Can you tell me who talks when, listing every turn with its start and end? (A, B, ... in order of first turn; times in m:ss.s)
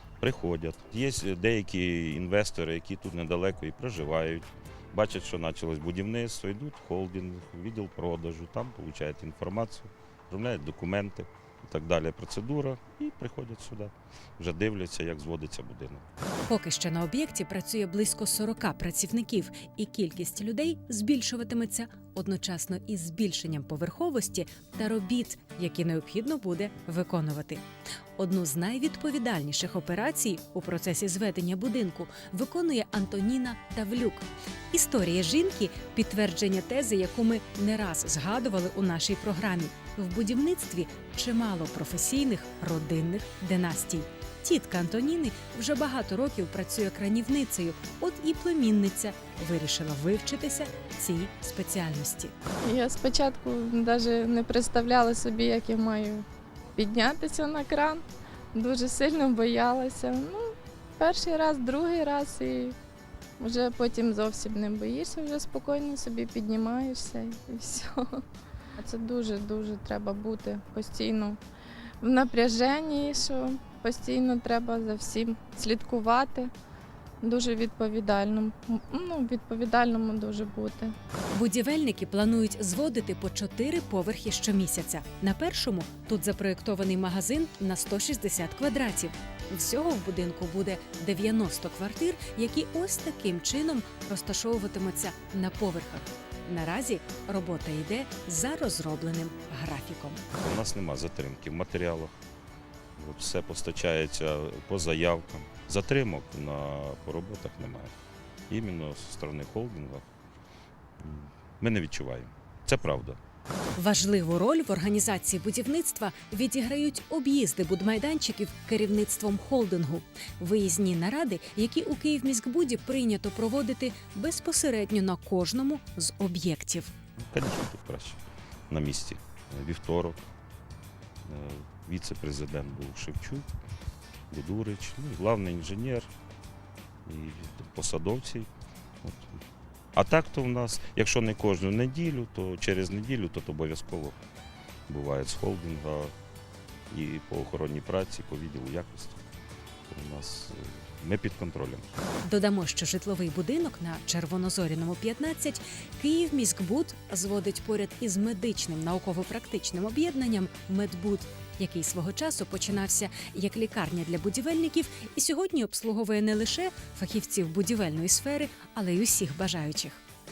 0:00.2-0:16.0 A
0:16.5-0:27.6 B
0:28.2-0:52.3 B
0:52.6-0:58.0 C
0:58.5-1:02.7 C
1:03.4-1:08.2 C
1:08.8-1:11.4 C
1:12.0-1:16.5 C
1:17.2-1:20.9 C
1:21.3-1:40.2 B
1:40.4-1:42.1 A
1:43.0-1:47.9 A
1:48.5-1:50.0 A
1:51.0-1:53.2 A
1:53.8-2:06.9 B
2:07.2-2:10.2 A
2:11.2-2:13.5 A
2:14.3-2:16.1 A
2:17.0-2:18.5 A
2:19.0-2:19.4 A
2:19.9-2:24.2 A
2:24.9-2:26.1 A
2:26.9-2:29.2 A
2:29.9-2:31.8 A
2:32.2-2:50.0 B